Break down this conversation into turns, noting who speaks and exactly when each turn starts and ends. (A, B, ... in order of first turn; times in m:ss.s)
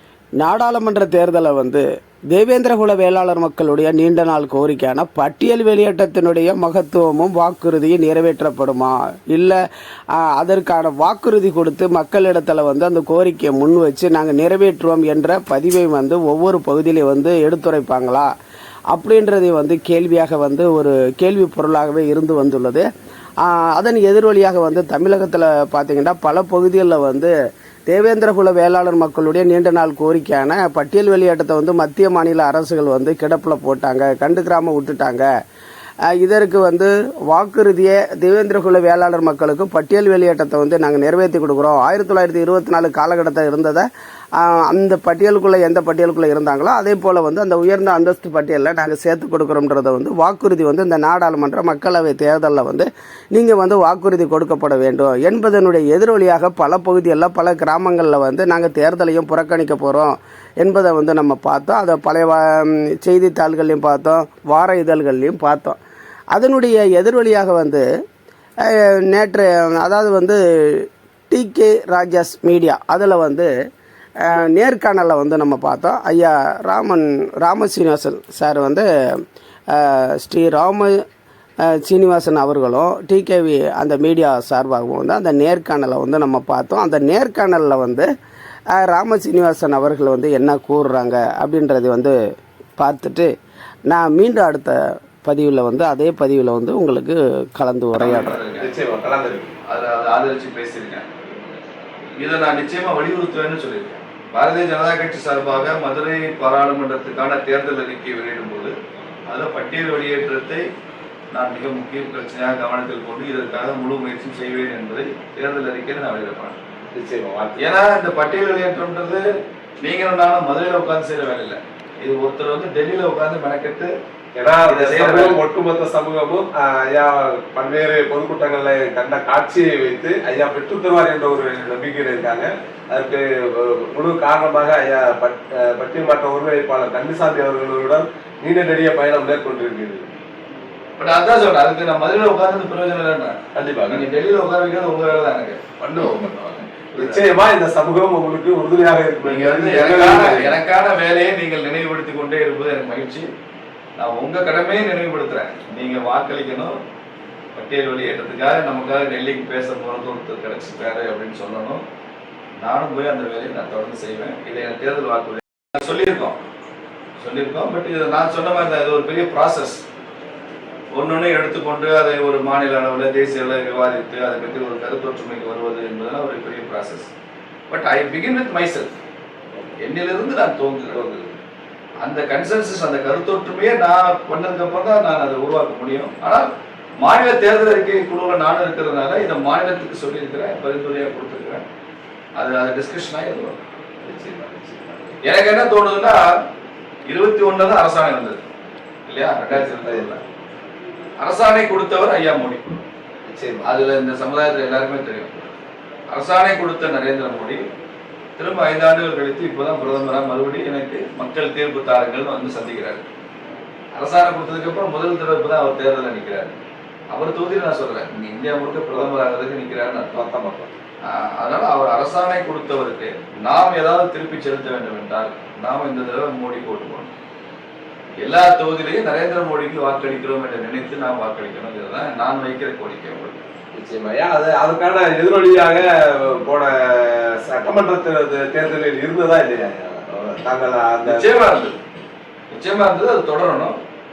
0:00.4-0:09.6 A
0:10.1-0:18.3 A
0:18.9-0:22.8 A
0:23.4-0:27.3 A
0:27.9-0:35.3 A
0:36.1-1:05.8 A
1:06.3-1:07.8 A
1:08.6-1:13.5 A
1:14.2-1:21.0 A
1:21.6-1:28.1 A
1:28.7-1:32.1 A
1:32.8-1:33.3 A
1:33.9-1:38.4 A
1:38.0-1:38.7 B
1:38.6-1:39.5 C
1:39.7-1:41.1 B
1:42.2-1:48.7 B
1:49.3-1:50.6 B
1:51.3-1:56.6 B
1:56.9-1:57.7 C
1:57.6-1:59.2 B
1:59.8-2:03.9 B
2:04.4-2:20.0 C
2:04.7-2:05.4 B
2:21.0-2:25.7 B
2:23.5-2:24.1 C
2:25.8-2:30.5 C
2:29.2-2:33.3 B
2:34.0-2:36.8 B
2:37.5-2:41.8 B
2:42.6-2:46.4 B
2:47.2-2:49.8 B
2:50.9-2:57.1 B
2:57.7-2:59.0 B
2:59.8-3:01.0 B
3:00.9-3:01.4 C
3:02.0-3:11.6 B
3:12.4-3:13.6 B
3:14.0-3:15.2 C
3:15.2-3:16.2 B
3:17.0-3:18.4 B
3:19.1-3:20.2 B
3:19.5-3:20.1 C
3:21.2-3:22.8 B
3:23.2-3:23.7 C
3:23.6-3:25.5 B
3:26.1-3:27.6 B
3:28.4-3:33.0 B
3:33.9-3:36.6 B
3:37.1-3:40.2 B
3:40.1-3:40.7 C
3:41.0-3:47.1 B
3:48.2-3:53.4 B
3:53.7-4:01.3 C
4:01.0-4:01.8 B
4:02.5-4:03.8 B